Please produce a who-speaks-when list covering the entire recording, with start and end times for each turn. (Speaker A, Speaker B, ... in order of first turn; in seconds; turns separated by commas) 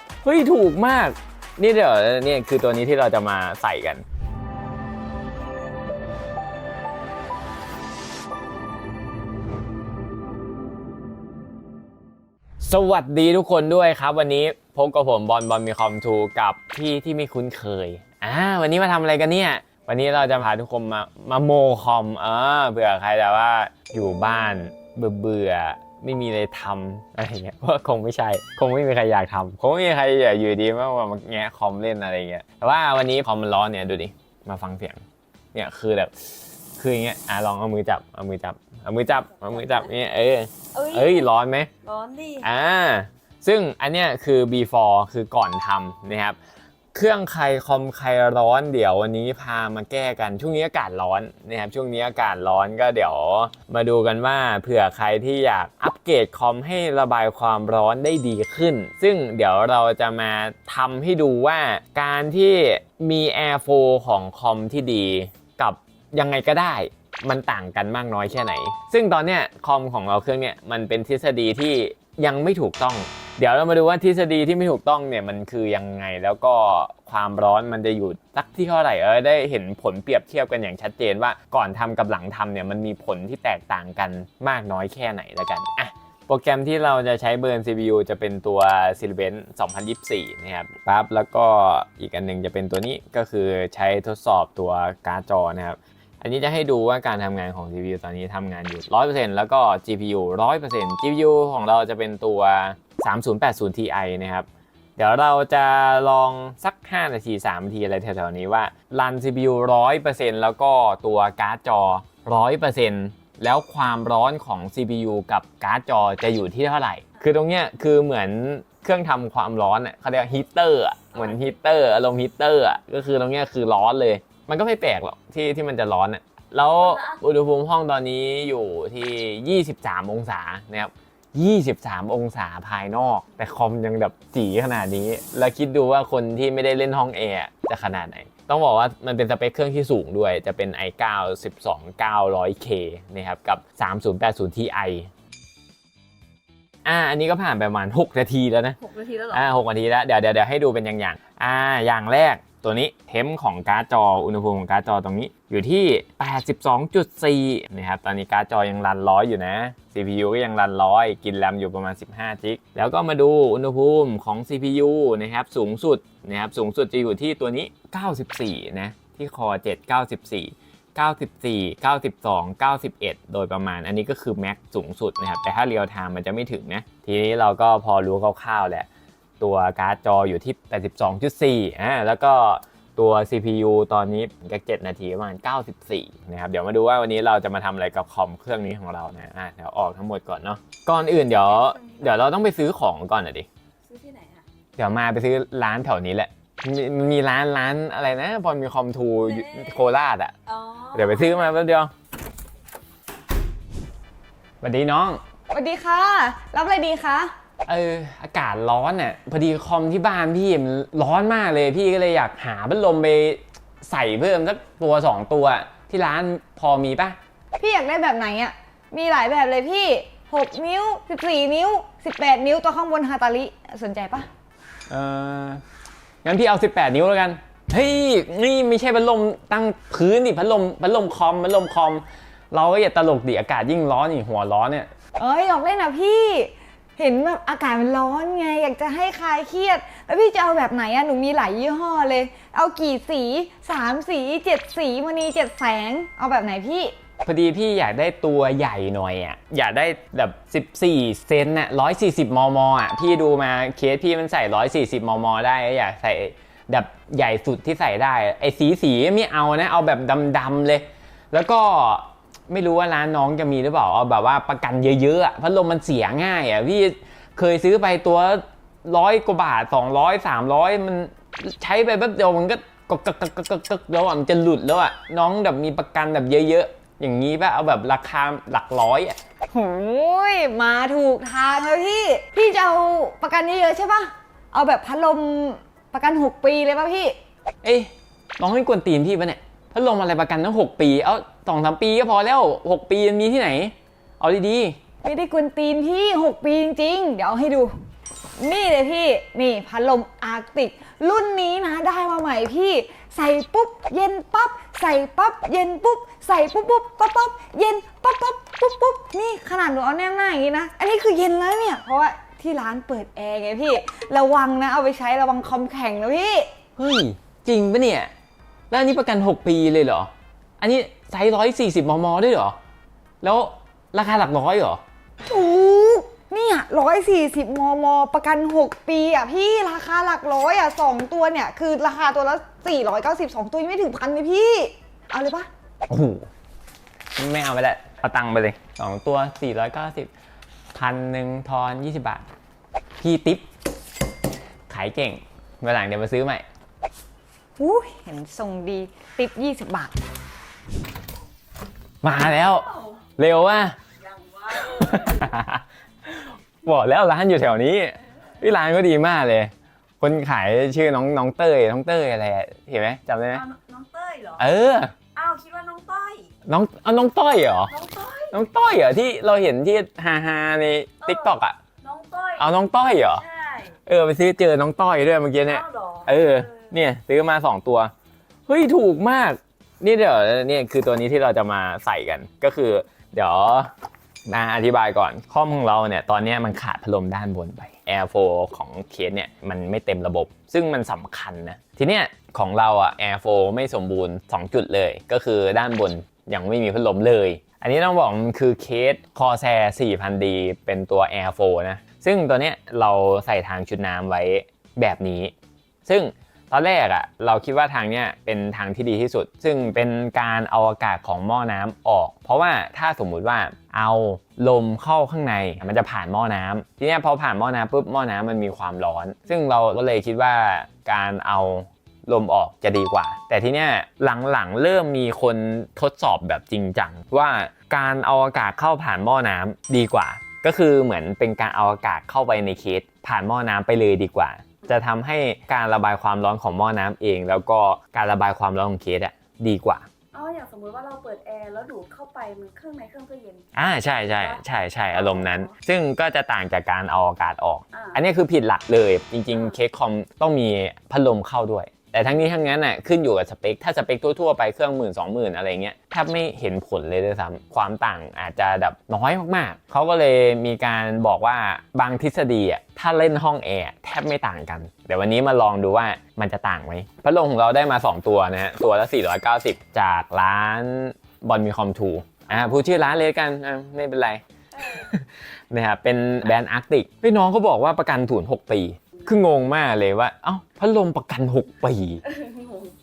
Speaker A: 0.2-4.0, Speaker A: 12.6-35.0, Speaker A: 35.5-41.7, Speaker B: 39.5-39.9, Speaker B: 40.7-41.3, Speaker B: 41.8-42.4, Speaker A: 42.4-46.4, Speaker A: 46.9-145.1, Speaker B: 126.8-127.2, Speaker A: 146.8-178.9, Speaker B: 148.9-149.4, Speaker A: 179.4-193.5, Speaker B: 191.7-192.0, Speaker B: 193.9-194.4, Speaker A: 194.8-200.3, Speaker B: 199.4-199.8, Speaker B: 200.4-201.5, Speaker A: 200.9-201.9, Speaker A: 204.6-205.2, Speaker C: 205.5-207.3, Speaker A: 207.7-217.2, Speaker C: 217.6-224.3, Speaker A: 224.9-225.6, Speaker A: 226.2-234.9, Speaker C: 235.2-246.9, Speaker A: 247.2-279.2, Speaker C: 279.5-287.1, Speaker A: 287.6-294.8, Speaker C: 295.0-297.7, Speaker C: 298.4-316.5, Speaker A: 316.8-318.1, Speaker A: 318.7-322.6, Speaker A: 323.2-324.8, Speaker C: 325.3-335.5, Speaker A: 335.9-336.3, Speaker A: 337.1-340.1, Speaker A: 340.7-342.3, Speaker A: 343.0-343.5, Speaker A: 344.7-346.4, Speaker C: 347.6-349.9, Speaker A: 352.0-353.8, Speaker B: 354.1-355.2, Speaker A: 354.4-363.4, Speaker B: 363.3-364.4, Speaker A: 364.4-364.9, Speaker B: 365.1-366.3, Speaker A: 366.5-371.6, Speaker B: 367.7-368.3, Speaker B: 371.0-372.6, Speaker A: 372.4-373.2, Speaker B: 373.2-373.8, Speaker A: 373.8-377.9, Speaker B: 375.5-376.6, Speaker A: 378.5-383.7, Speaker A: 384.3-405.3, Speaker A: 405.8-439.9, Speaker B: 440.1-443.5, Speaker A: 443.5-482.1, Speaker B: 444.1-444.4, Speaker B: 444.9-445.5, Speaker B: 447.7-448.0, Speaker B: 482.1-482.7